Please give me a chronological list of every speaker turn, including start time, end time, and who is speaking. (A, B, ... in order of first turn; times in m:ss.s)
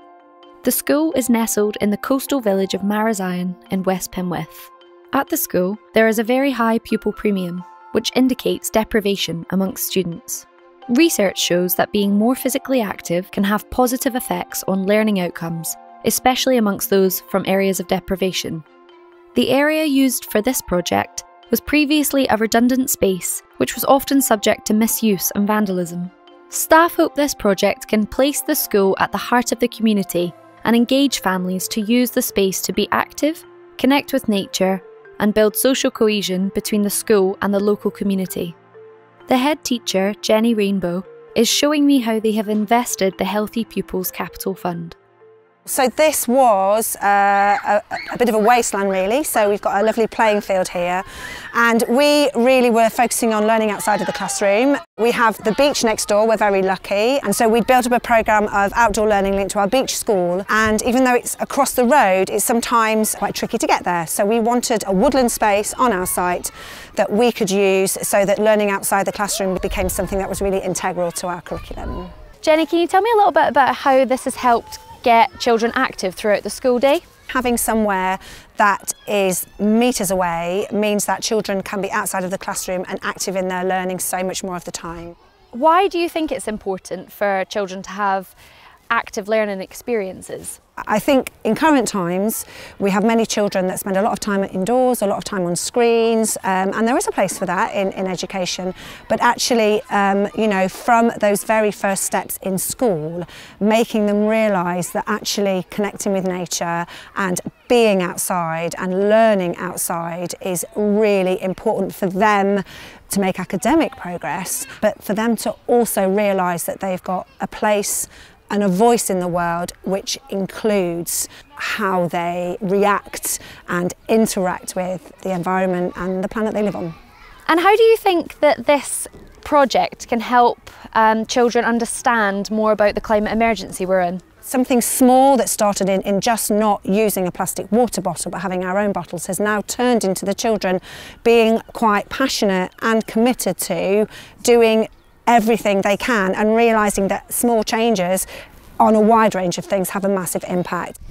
0:00.6-0:18.6 A
0:19.3-0:38.6 A
0:39.3-0:45.0 A
0:45.7-1:12.1 B
1:12.4-1:17.0 A
1:17.3-1:25.1 B
1:25.5-1:28.3 A
1:28.9-1:30.6 A
1:30.9-2:06.9 B
2:07.5-2:14.2 A
2:14.4-2:28.3 B
2:28.8-2:30.9 B